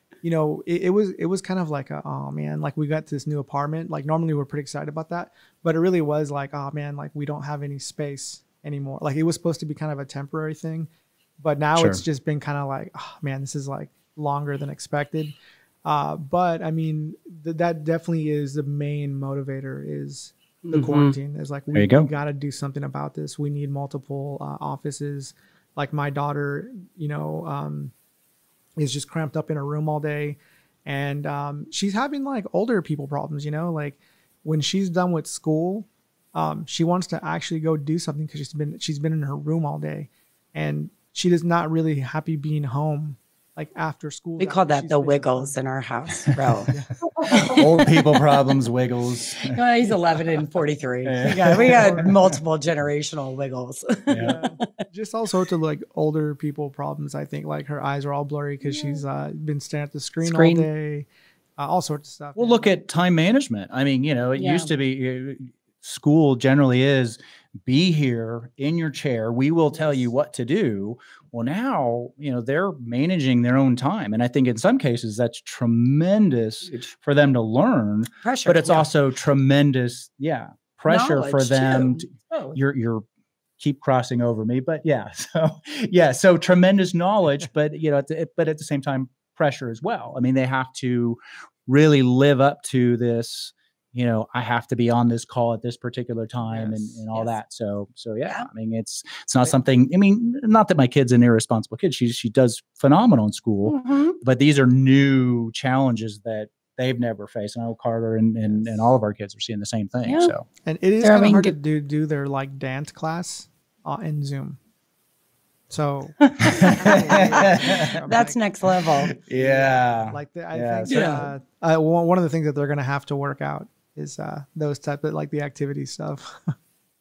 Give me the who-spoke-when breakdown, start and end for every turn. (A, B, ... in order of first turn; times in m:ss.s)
0:00.2-0:27.9 A
0:11.8-0:12.0 B
0:20.7-0:21.2 C
0:21.7-0:22.1 B
0:28.8-0:45.5 A
0:44.4-0:46.7 C
0:47.3-0:48.2 C
0:47.3-0:49.6 B
0:49.4-0:54.7 C
0:51.0-0:52.3 B
0:51.5-0:52.1 A
0:54.1-0:54.4 B
0:54.2-1:02.7 A
0:58.6-0:59.0 C
1:00.2-1:00.7 C
1:02.4-1:23.0 B
1:04.4-1:04.7 C
1:09.8-1:10.0 A
1:16.7-1:16.9 C
1:18.2-1:18.9 C
1:20.9-1:22.6 C
1:23.6-1:50.4 B
1:36.4-1:37.0 A
1:43.6-1:44.2 C
1:48.4-1:48.9 A
1:50.0-1:50.3 C
1:50.6-1:54.6 A
1:51.0-1:51.5 C
1:55.7-1:58.4 A
1:56.2-1:59.2 C
1:56.5-1:57.8 B
1:59.2-2:01.3 B
1:59.3-2:06.5 A
2:00.9-2:01.2 C